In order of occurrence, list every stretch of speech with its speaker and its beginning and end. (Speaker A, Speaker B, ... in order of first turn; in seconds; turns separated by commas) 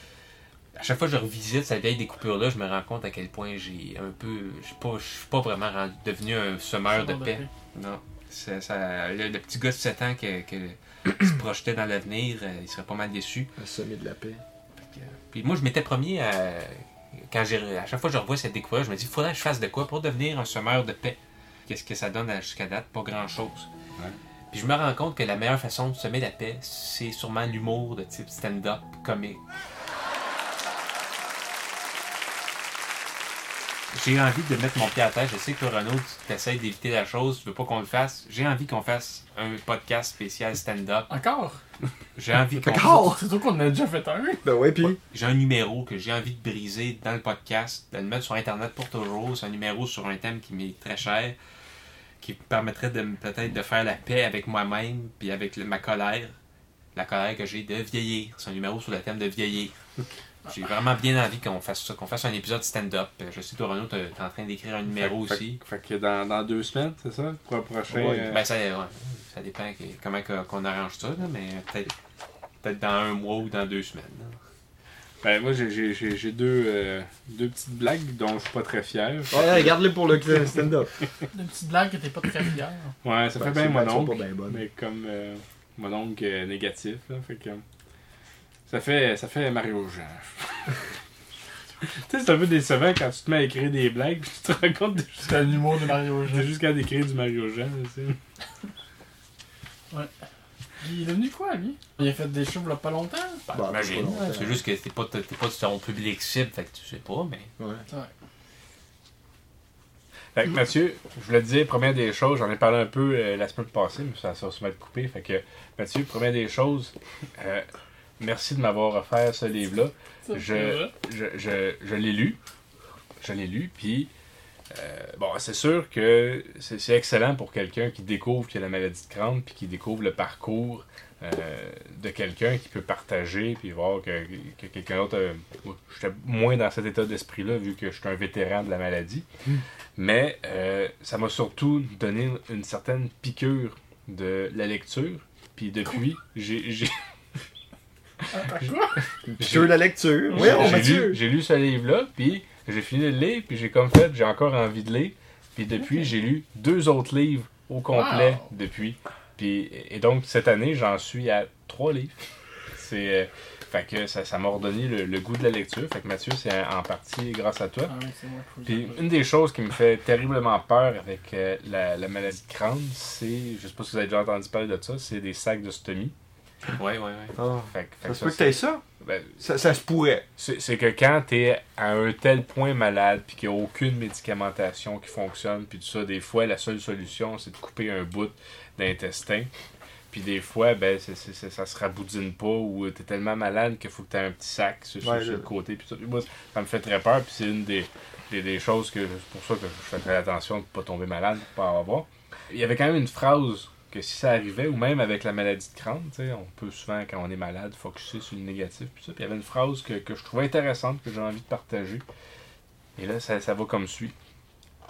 Speaker A: 0.8-13.5, Speaker B: 6.9-7.5, Speaker C: 13.6-14.4, Speaker A: 14.8-23.7, Speaker A: 24.5-29.4, Speaker A: 33.9-41.1, Speaker B: 41.1-41.6, Speaker A: 42.1-43.1, Speaker C: 42.6-43.2, Speaker B: 42.8-44.4, Speaker C: 44.4-45.0, Speaker A: 44.8-51.4, Speaker A: 52.2-56.3, Speaker A: 56.9-59.7, Speaker A: 60.5-65.6, Speaker D: 64.9-68.5, Speaker C: 67.9-68.3, Speaker A: 68.3-71.9, Speaker A: 72.6-74.4, Speaker D: 75.2-79.7, Speaker C: 79.3-80.9, Speaker B: 81.3-82.9, Speaker D: 83.0-87.6, Speaker C: 83.4-84.6, Speaker D: 88.7-90.7, Speaker D: 91.9-95.7, Speaker B: 95.2-96.6, Speaker D: 96.3-98.2, Speaker B: 100.8-103.6, Speaker C: 103.5-104.6, Speaker A: 103.6-107.5, Speaker C: 107.6-107.8, Speaker D: 110.3-117.6, Speaker D: 118.2-122.4, Speaker B: 120.3-120.9, Speaker D: 123.2-124.1, Speaker D: 124.7-139.2, Speaker D: 140.0-146.9, Speaker B: 148.3-149.0, Speaker C: 149.3-151.2, Speaker D: 149.4-162.1, Speaker B: 150.3-150.7, Speaker B: 155.8-156.1, Speaker B: 157.9-158.4, Speaker D: 162.7-167.9, Speaker B: 167.8-169.1, Speaker D: 168.7-176.1, Speaker A: 176.7-177.3, Speaker C: 177.3-178.8, Speaker D: 177.6-179.4, Speaker C: 179.4-180.2, Speaker D: 180.4-189.5, Speaker D: 190.1-212.1, Speaker C: 195.0-195.5, Speaker D: 213.0-214.1